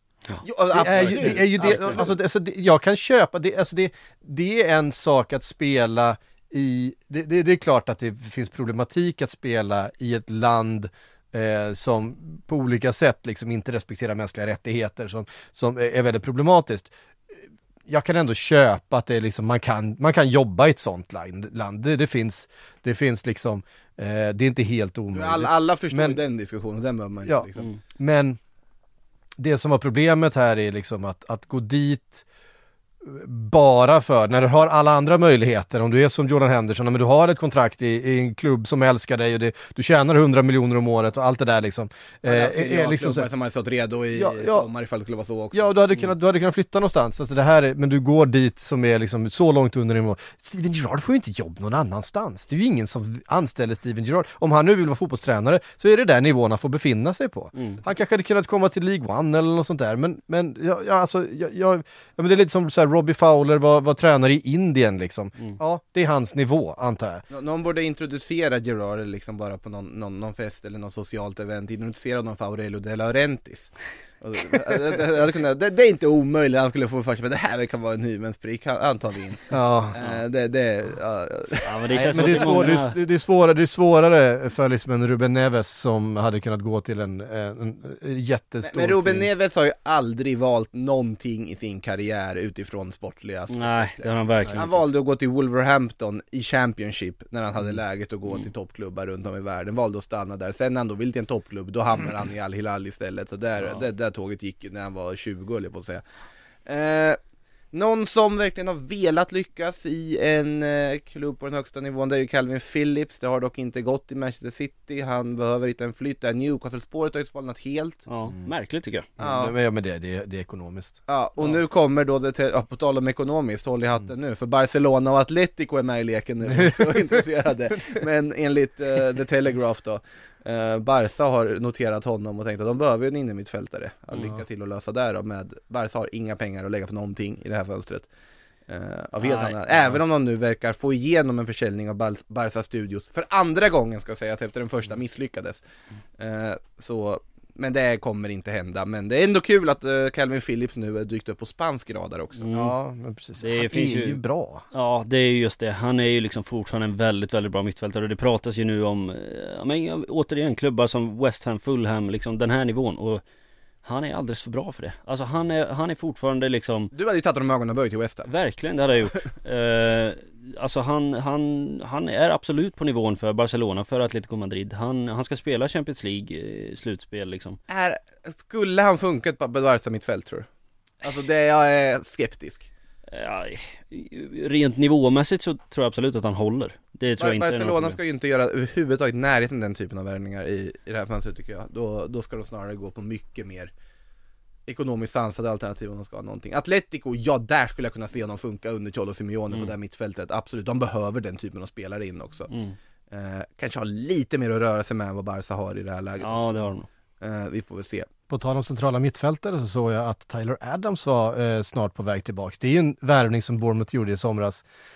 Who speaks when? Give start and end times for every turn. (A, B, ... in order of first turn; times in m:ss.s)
0:00.4-0:02.1 A
0:00.7-0:17.3 B
0:01.0-0:01.9 C
0:17.9-0:26.2 B
0:25.1-0:27.7 A
0:27.2-0:28.4 B
0:29.4-0:32.2 B
0:33.0-0:43.3 B
0:42.2-0:45.7 A
0:44.1-0:44.7 B
0:45.5-1:07.2 B
0:57.5-0:57.8 C
1:07.3-1:22.8 A
1:19.5-1:20.0 B
1:21.6-1:22.9 C
1:21.9-1:29.3 B
1:28.6-1:46.0 A
1:33.5-1:34.8 C
1:43.6-1:43.8 C
1:46.6-1:47.2 A
1:47.7-1:58.0 A
1:58.1-1:59.1 C
1:59.2-2:01.0 B
1:59.2-1:59.5 A
2:01.1-2:18.1 A
2:06.5-2:07.2 B
2:18.7-2:25.6 A
2:19.2-2:19.6 C
2:26.2-2:32.5 A
2:32.4-2:32.7 C
2:32.5-2:34.6 B
2:33.4-2:34.2 C
2:34.7-2:43.2 C
2:43.8-2:46.9 C
2:46.9-2:48.3 A
2:48.3-2:57.6 C
2:57.7-3:00.5 A
3:01.0-3:02.7 A
3:03.1-3:08.0 C
3:07.2-3:13.7 A
3:14.7-3:22.5 A
3:22.5-3:22.8 C
3:23.1-3:28.1 A
3:26.2-3:26.9 C
3:28.3-3:34.6 B